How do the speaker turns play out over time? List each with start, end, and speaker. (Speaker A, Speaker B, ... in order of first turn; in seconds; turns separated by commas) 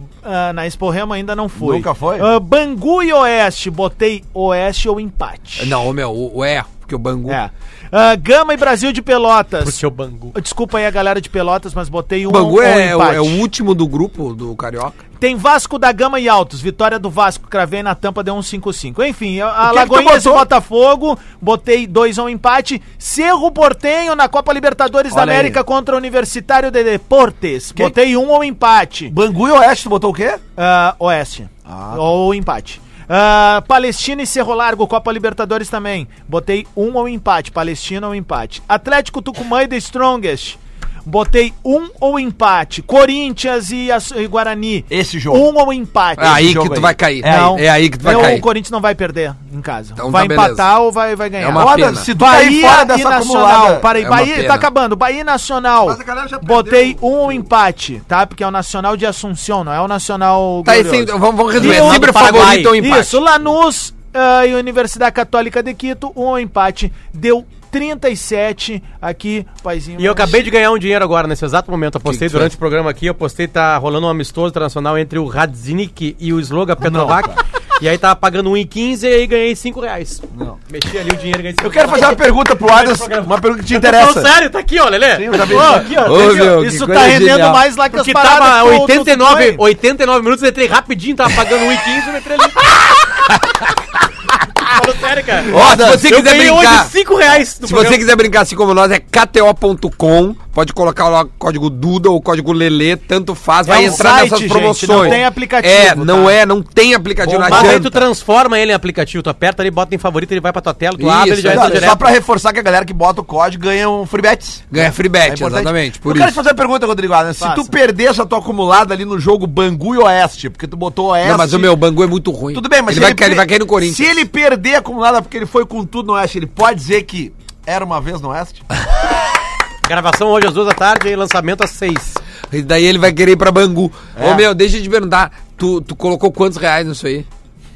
Speaker A: 0.2-5.8, Speaker B: 1.6-2.3, Speaker C: 5.6-7.4, Speaker A: 7.3-9.8, Speaker D: 9.6-10.3, Speaker A: 10.3-13.4, Speaker C: 12.3-14.9, Speaker A: 15.2-29.1, Speaker B: 19.6-20.5, Speaker B: 25.1-25.6, Speaker B: 29.1-30.4, Speaker A: 30.6-46.4, Speaker B: 31.6-32.0, Speaker B: 44.9-45.5, Speaker B: 46.2-48.4, Speaker C: 46.2-48.5, Speaker A: 47.2-70.4, Speaker C: 50.0-50.6, Speaker C: 51.4-52.1, Speaker B: 51.5-53.9, Speaker C: 54.0-54.7, Speaker B: 55.8-57.5, Speaker C: 60.6-63.2, Speaker D: 61.5-62.7, Speaker D: 70.0-86.3, Speaker C: 72.0-72.5, Speaker B: 76.8-77.4, Speaker B: 80.3-80.6, Speaker B: 81.6-84.3, Speaker B: 85.1-86.0, Speaker A: 85.5-89.6, Speaker C: 86.0-87.6, Speaker D: 87.9-92.6, Speaker D: 94.7-98.0, Speaker B: 95.4-96.1, Speaker C: 95.5-96.9, Speaker C: 97.6-108.0, Speaker A: 103.7-106.4, Speaker B: 103.9-104.2, Speaker D: 107.2-112.1, Speaker B: 107.5-107.8, Speaker C: 111.0-111.9, Speaker B: 111.5-121.7, Speaker C: 114.7-116.4, Speaker A: 117.4-117.7, Speaker C: 121.2-124.2, Speaker B: 122.5-128.7, Speaker D: 129.8-132.2, Speaker C: 132.5-137.3, Speaker B: 134.2-134.5